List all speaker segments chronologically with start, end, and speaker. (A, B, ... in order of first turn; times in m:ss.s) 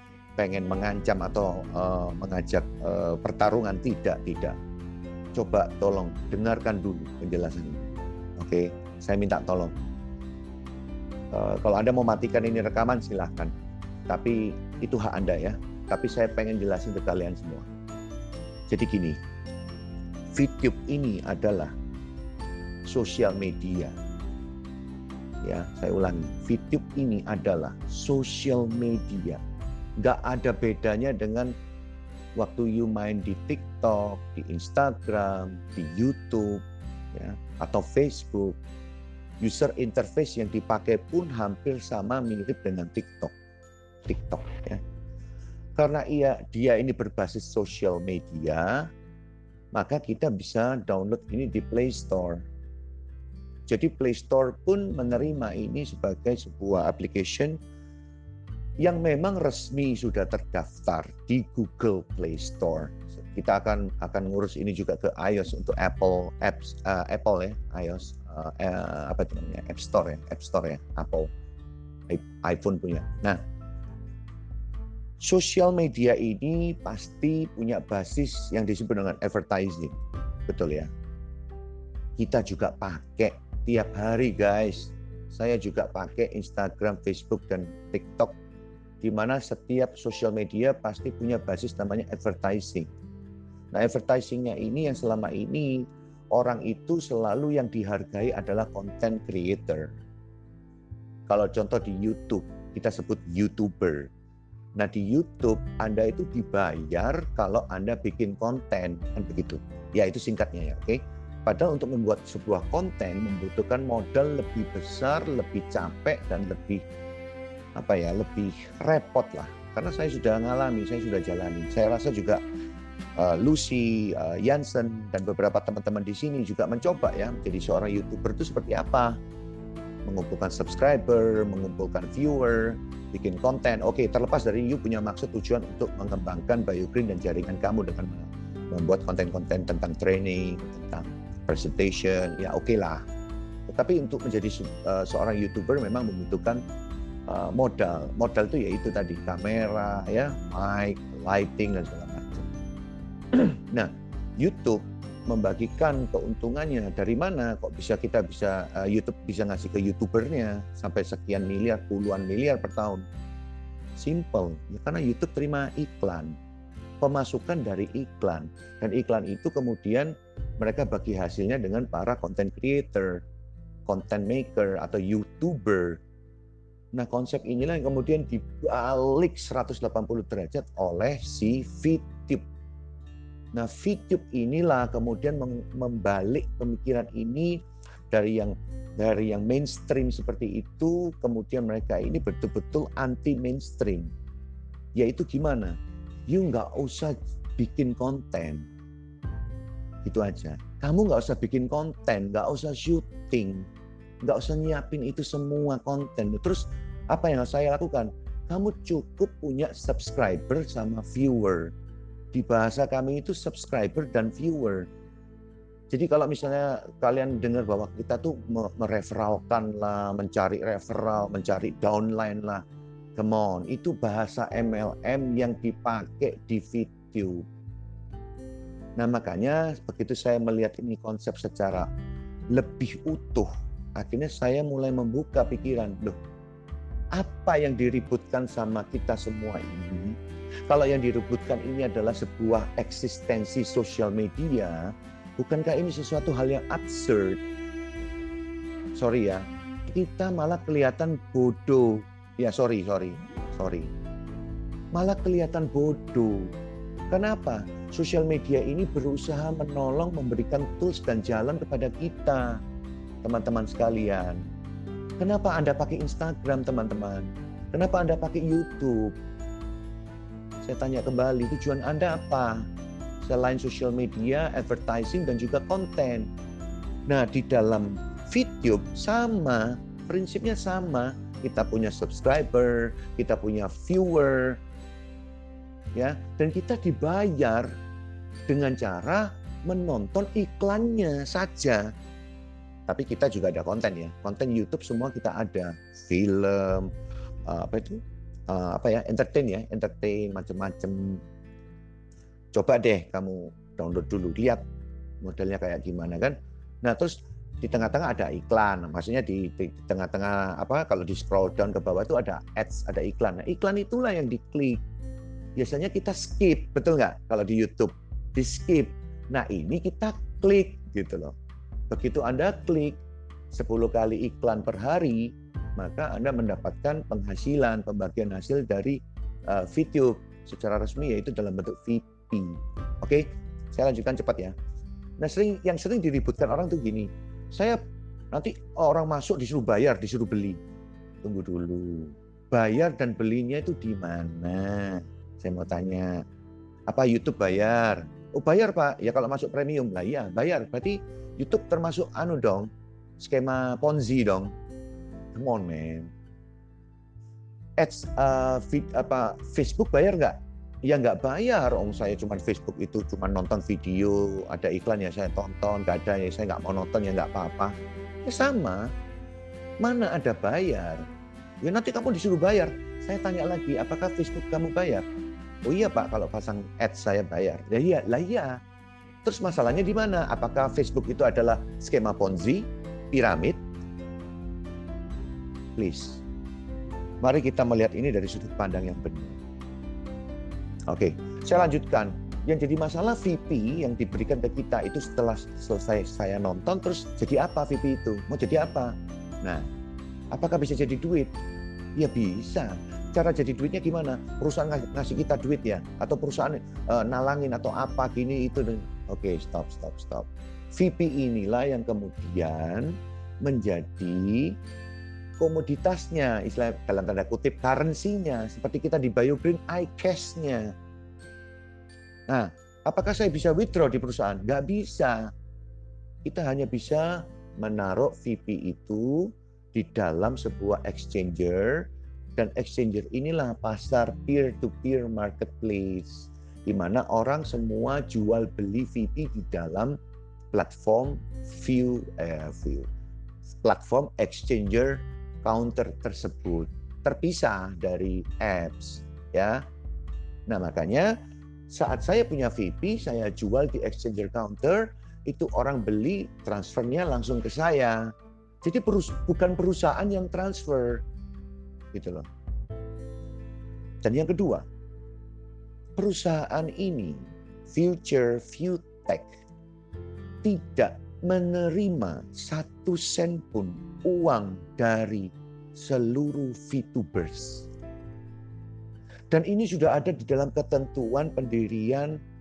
0:00.4-0:04.6 A
0:05.3-0:09.7 A
0:11.3-0:13.5 A
0:14.1-0:17.7 A
0:18.7-0:19.2 A
0:20.4-0:21.7 A
0:22.9-0:23.9 A
0:25.4-0:29.4 A
0:30.0-0:31.5 A
0:32.4-0:36.6 A
0:37.1-0:38.6 A
0:39.4-0:43.3 A
0:44.1-0:44.8 A
0:45.8-0:48.9 A
0:49.7-0:52.4 A
0:53.7-0:57.6 A
0:58.8-1:11.3 A
1:12.1-1:13.4 A
1:15.2-1:20.9 A
1:22.2-1:28.4 A
1:29.0-1:32.9 A
1:33.7-1:40.0 A
1:41.3-1:44.1 A
1:44.8-1:56.8 A
1:57.8-2:02.4 A
2:03.2-2:09.2 A
2:10.1-2:23.0 A
2:23.7-2:26.6 A
2:27.3-2:32.5 A
2:33.3-2:43.0 A
2:44.0-2:46.4 A
2:47.0-2:53.2 A
2:53.9-2:56.0 A
2:56.9-3:02.4 A
3:03.5-3:14.1 A
3:15.0-3:15.7 A
3:16.3-3:18.7 A
3:20.0-3:23.7 A
3:24.2-3:31.7 A
3:32.3-3:34.9 A
3:35.9-3:42.6 A
3:43.2-3:47.4 A
3:49.0-3:51.9 A
3:52.5-3:56.2 A
3:57.2-4:00.2 A
4:00.7-4:07.4 A
4:08.9-4:13.9 A
4:14.9-4:16.5 A
4:17.1-4:22.6 A
4:23.2-4:24.4 A
4:25.2-4:29.2 A
4:30.6-4:32.6 A
4:33.2-4:36.3 A
4:37.1-4:44.6 A
4:45.9-4:47.7 A
4:48.5-4:51.9 A
4:52.9-4:56.9 A
4:57.4-5:01.2 A
5:02.5-5:04.6 A
5:05.2-5:14.8 A
5:15.6-5:21.3 A
5:21.9-5:23.0 A
5:23.5-5:34.5 A
5:35.2-5:37.8 A
5:38.3-5:40.6 A
5:41.2-5:46.2 A
5:46.9-5:54.5 A
5:55.3-5:56.1 A
5:57.8-6:07.7 A
6:08.2-6:08.9 A
6:09.8-6:11.0 A
6:11.6-6:15.0 A
6:15.7-6:18.6 A
6:19.2-6:23.6 A
6:25.8-6:26.2 A
6:27.2-6:29.4 A
6:30.9-6:39.6 A
6:40.3-6:41.3 A
6:42.0-6:54.6 A
6:55.4-7:00.7 A
7:02.3-7:05.3 A
7:06.2-7:20.0 A
7:20.5-7:22.9 A
7:23.5-7:29.6 A
7:30.5-7:31.1 A
7:31.7-7:38.1 A
7:38.6-7:41.0 A
7:41.9-7:42.3 A
7:44.0-7:44.6 A
7:46.0-7:49.4 A
7:50.4-7:57.7 A
7:59.3-8:02.2 A